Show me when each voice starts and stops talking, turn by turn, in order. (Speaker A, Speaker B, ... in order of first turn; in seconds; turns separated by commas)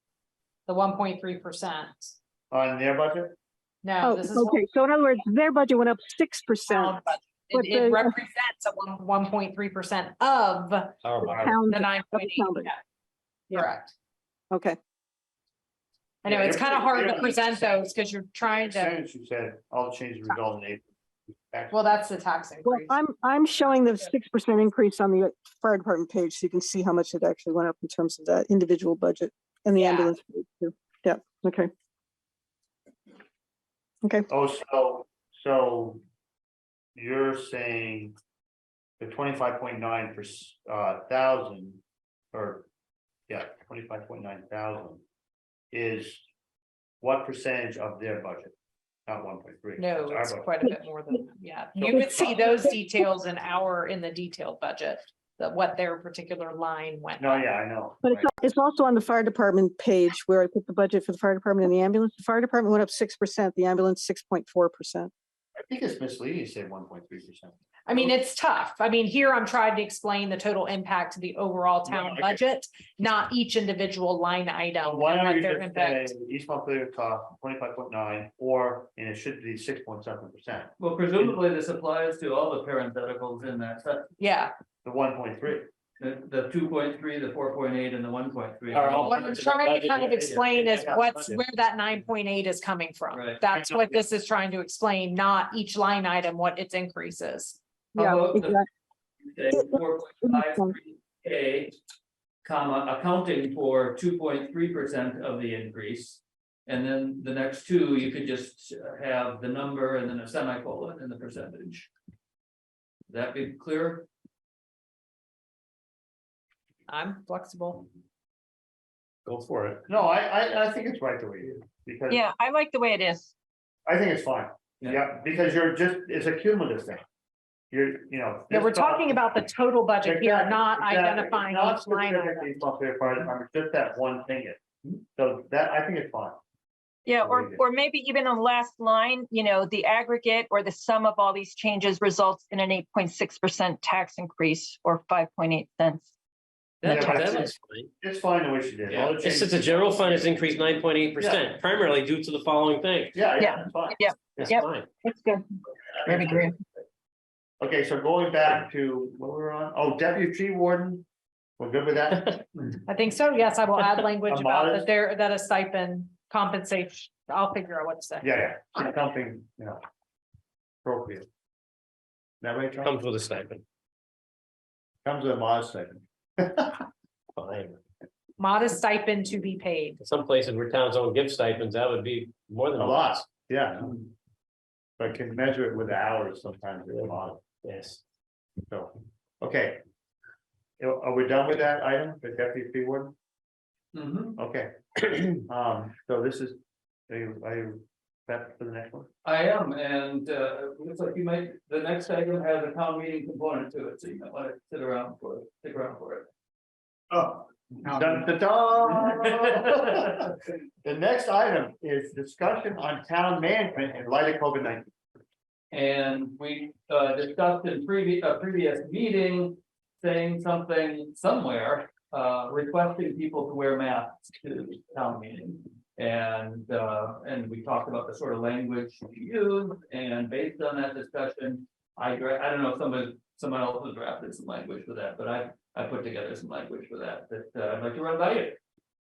Speaker A: 0.7-2.1, Speaker B: 2.5-3.4, Speaker A: 3.8-4.6, Speaker C: 4.0-7.0, Speaker A: 6.7-11.0, Speaker C: 7.5-8.1, Speaker B: 11.0-11.5, Speaker C: 11.2-12.7, Speaker A: 11.7-12.8, Speaker A: 13.5-13.9, Speaker C: 14.5-14.8, Speaker A: 16.2-18.9, Speaker B: 16.2-17.5, Speaker B: 18.6-20.9, Speaker B: 21.5-21.8, Speaker A: 21.7-22.9, Speaker C: 22.6-31.7, Speaker A: 29.8-30.1, Speaker B: 34.3-36.0, Speaker B: 37.0-38.2, Speaker B: 39.0-41.8, Speaker B: 42.3-42.7, Speaker B: 43.3-45.0, Speaker B: 45.7-46.2, Speaker B: 47.0-48.5, Speaker B: 49.1-50.5, Speaker A: 49.8-57.5, Speaker B: 51.8-52.5, Speaker B: 57.2-58.3, Speaker C: 58.0-65.1, Speaker B: 65.6-68.1, Speaker A: 67.9-76.1, Speaker B: 71.9-72.4, Speaker B: 74.8-81.4, Speaker D: 80.8-84.1, Speaker A: 84.2-84.5, Speaker B: 84.8-85.7, Speaker D: 86.0-89.4, Speaker E: 88.7-90.3, Speaker A: 89.1-97.6, Speaker B: 89.9-91.4, Speaker D: 93.1-93.4, Speaker B: 93.5-94.0, Speaker C: 98.0-98.7, Speaker D: 98.0-98.6, Speaker D: 99.3-101.8, Speaker C: 99.5-100.7, Speaker D: 102.4-111.9, Speaker D: 113.1-114.1, Speaker A: 116.9-117.9, Speaker E: 119.3-119.8, Speaker B: 119.8-122.3, Speaker F: 122.1-123.3, Speaker B: 123.9-127.0, Speaker B: 127.7-129.4, Speaker A: 128.5-132.6, Speaker B: 130.0-134.6, Speaker B: 135.2-136.4, Speaker F: 137.1-146.1, Speaker B: 137.2-137.6, Speaker E: 146.8-147.9, Speaker B: 146.8-151.4, Speaker E: 148.9-153.3, Speaker B: 153.1-154.5, Speaker F: 153.4-156.6, Speaker E: 154.4-154.9, Speaker B: 156.0-156.6, Speaker B: 157.6-161.1, Speaker B: 161.6-162.8, Speaker A: 162.9-168.3, Speaker B: 164.3-164.9, Speaker B: 168.2-169.8, Speaker B: 170.8-171.3, Speaker B: 172.4-172.9, Speaker E: 172.8-173.6, Speaker B: 175.1-176.8, Speaker E: 177.4-177.8, Speaker A: 178.4-180.0, Speaker E: 180.0-183.3, Speaker B: 182.8-184.1, Speaker B: 185.0-187.4, Speaker E: 187.6-188.0, Speaker B: 188.7-189.8, Speaker B: 190.8-193.1, Speaker D: 193.9-194.4, Speaker B: 194.4-196.6, Speaker B: 197.1-199.1, Speaker D: 199.2-206.3, Speaker B: 207.1-210.3, Speaker D: 208.9-210.3, Speaker B: 210.8-214.9, Speaker D: 215.7-238.6